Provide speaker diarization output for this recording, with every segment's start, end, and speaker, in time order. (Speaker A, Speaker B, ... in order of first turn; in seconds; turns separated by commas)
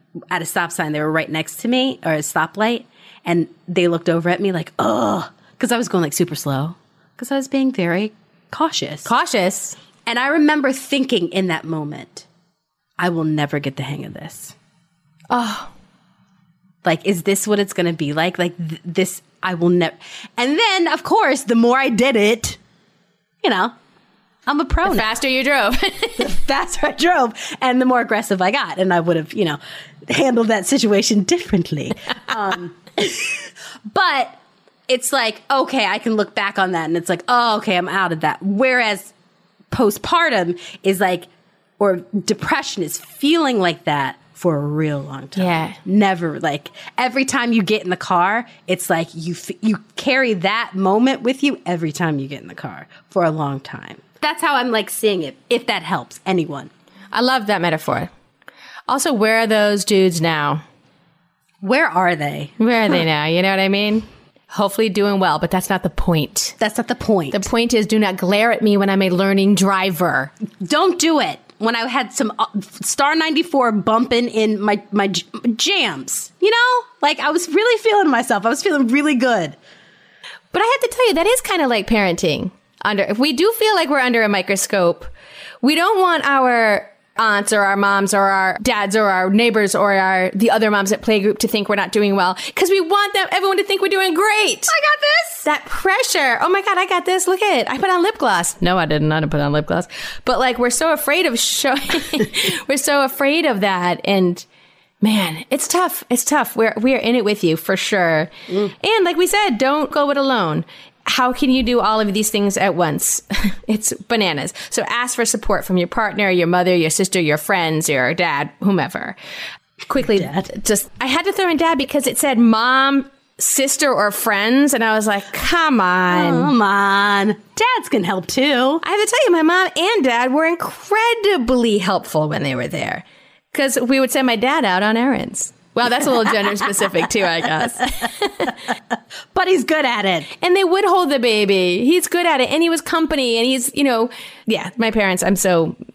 Speaker A: 0.3-9.1, Speaker B: 9.1-9.8, Speaker A: 10.1-12.3, Speaker A: 13.0-14.6, Speaker B: 15.3-15.7, Speaker A: 16.8-22.6, Speaker A: 23.4-23.7, Speaker A: 24.5-25.1, Speaker B: 24.9-26.2, Speaker A: 26.2-39.1, Speaker A: 39.7-41.3, Speaker A: 41.8-56.7, Speaker B: 45.4-45.8, Speaker B: 57.1-58.1, Speaker B: 58.9-60.6, Speaker A: 61.6-62.5, Speaker B: 62.6-66.5, Speaker A: 66.6-67.5, Speaker B: 67.3-70.3, Speaker A: 70.6-79.6, Speaker B: 80.5-85.1, Speaker B: 85.6-94.7, Speaker A: 94.7-95.4, Speaker B: 95.4-104.5, Speaker B: 105.0-119.2, Speaker B: 119.9-126.5, Speaker A: 120.0-120.5, Speaker A: 126.1-128.8, Speaker B: 128.8-138.6, Speaker A: 137.8-138.5, Speaker A: 139.3-140.3, Speaker B: 140.4-145.8